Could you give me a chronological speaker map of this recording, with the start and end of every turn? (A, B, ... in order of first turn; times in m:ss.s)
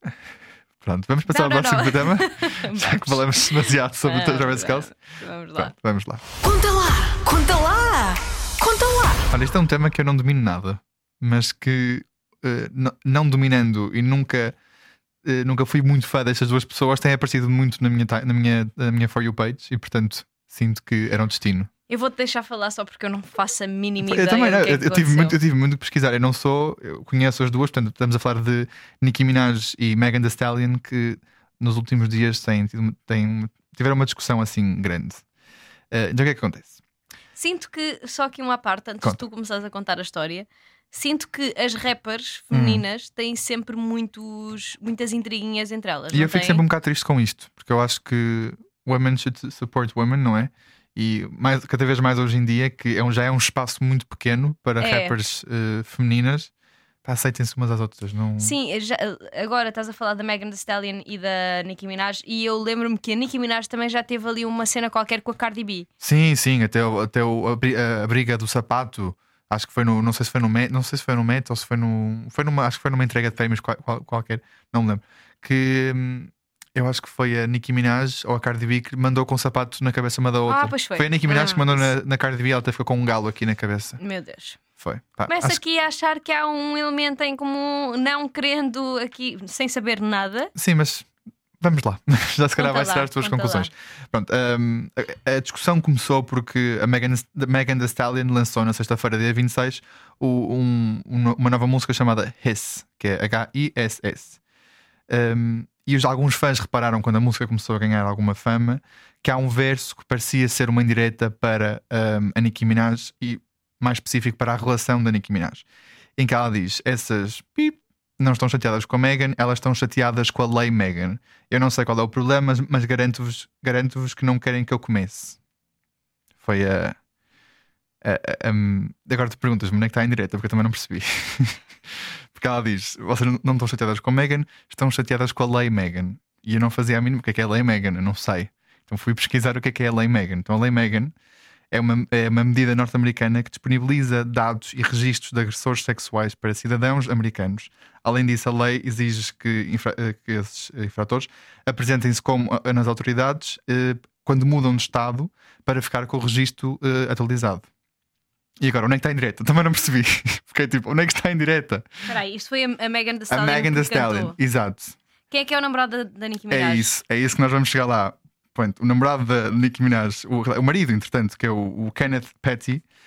0:00.8-0:04.9 A
0:01.3-0:05.7 B
0:05.6-0:06.2 A
0:06.4-0:09.3 C
0:09.3-0:14.6 A
0:15.2-0:21.7 A
0:21.9-0:25.4 B
0:24.0-0:35.2 A
0:35.9-0:36.8 A
0:37.4-0:46.6 B
0:42.5-0:42.8 A
0:46.1-0:56.5 A
0:54.8-0:55.2 B
0:57.0-0:58.6 A
0:58.4-1:05.9 B
1:06.0-1:24.0 A
1:20.5-1:21.9 B
1:24.0-1:24.6 B
1:24.8-1:25.6 A
1:25.3-1:30.5 B
1:30.6-1:31.1 A
1:31.6-1:44.4 A
1:32.6-1:33.7 B
1:45.1-1:55.6 A
1:56.2-2:05.4 A
2:06.4-2:07.0 A
2:08.0-2:21.1 A
2:21.7-2:37.7 A
2:38.6-2:42.1 A
2:42.1-2:44.4 B
2:43.3-2:45.0 A
2:45.3-2:46.9 B
2:46.5-2:52.8 A